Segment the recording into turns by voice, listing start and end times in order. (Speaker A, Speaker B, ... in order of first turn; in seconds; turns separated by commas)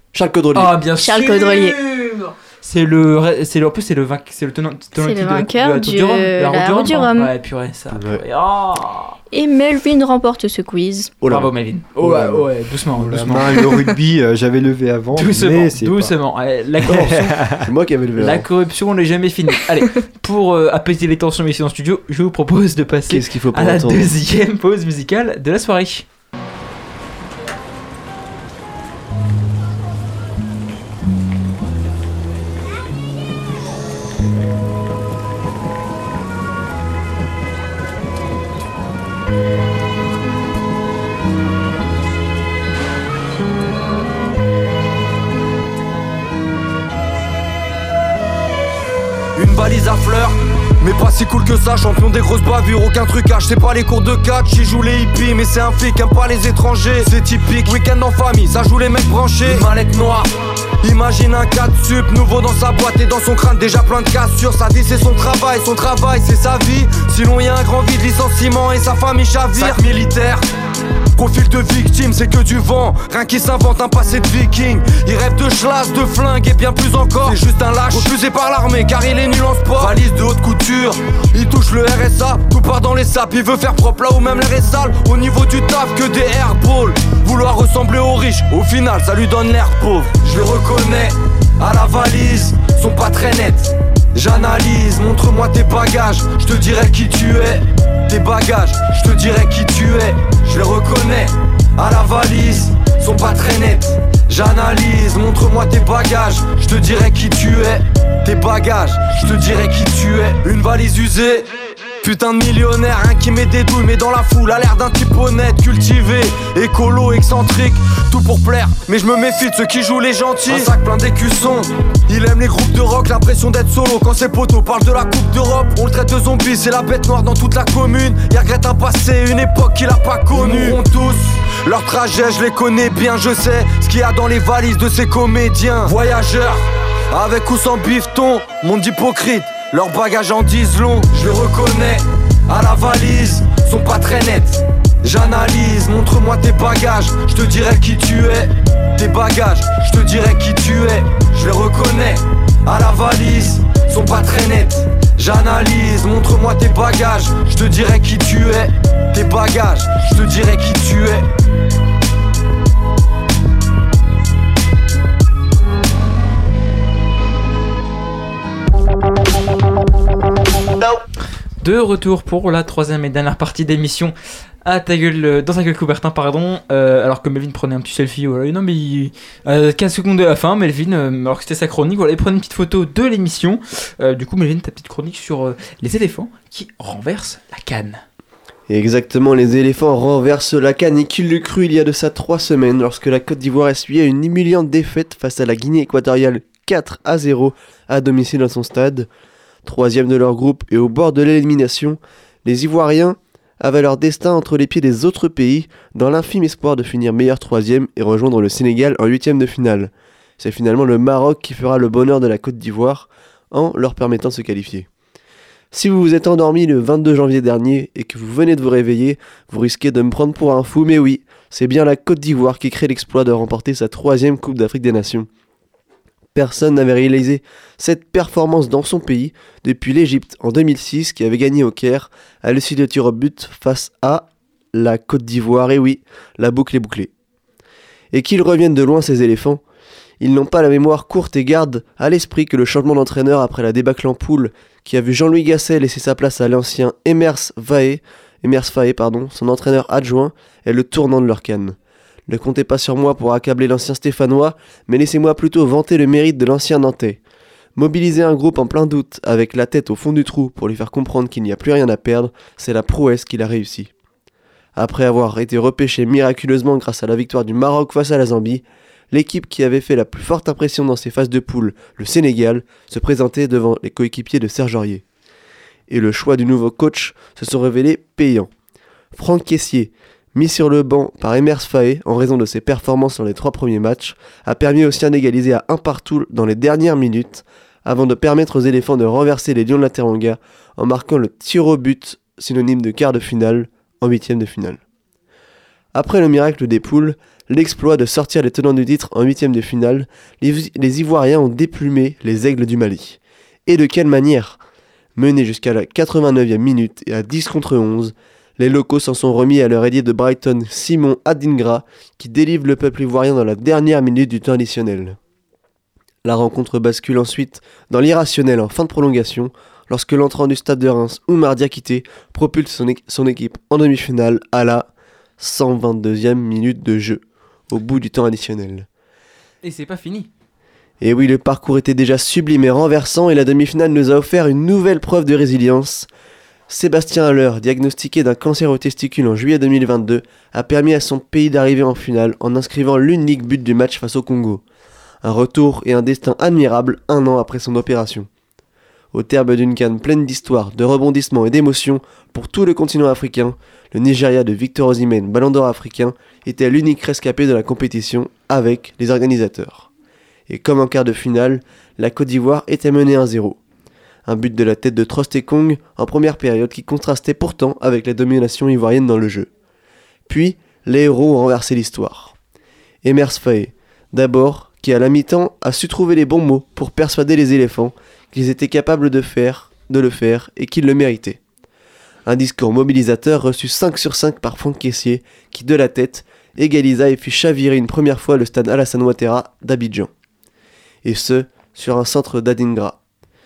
Speaker A: 0.1-0.8, Speaker B: 0.5-9.2, Speaker C: 1.0-1.8, Speaker C: 5.0-7.3, Speaker A: 7.9-8.2, Speaker C: 9.3-11.2, Speaker A: 11.2-12.4, Speaker B: 11.3-13.6, Speaker D: 12.9-16.1, Speaker B: 15.1-17.4, Speaker D: 16.8-17.7, Speaker A: 17.6-18.4, Speaker B: 18.2-26.1, Speaker A: 23.1-24.1, Speaker E: 49.4-60.3, Speaker E: 60.8-70.5, Speaker E: 71.2-111.5, Speaker E: 112.0-161.3, Speaker B: 171.6-188.0, Speaker A: 188.7-199.1, Speaker A: 199.6-214.9, Speaker A: 215.7-225.3, Speaker A: 226.3-237.1, Speaker A: 238.1-239.6, Speaker A: 240.2-251.8, Speaker A: 252.3-257.2, Speaker A: 257.8-263.9, Speaker A: 264.8-275.0, Speaker A: 275.9-278.5, Speaker A: 279.1-294.8, Speaker A: 295.9-304.6, Speaker A: 305.1-315.2, Speaker A: 316.2-328.9, Speaker B: 329.6-330.3, Speaker A: 331.0-336.1, Speaker A: 336.7-344.6, Speaker A: 345.2-348.3, Speaker A: 349.1-359.9, Speaker A: 360.5-363.6, Speaker A: 364.2-369.5, Speaker A: 370.3-372.3, Speaker A: 373.0-381.4, Speaker A: 382.2-390.1, Speaker A: 391.0-393.0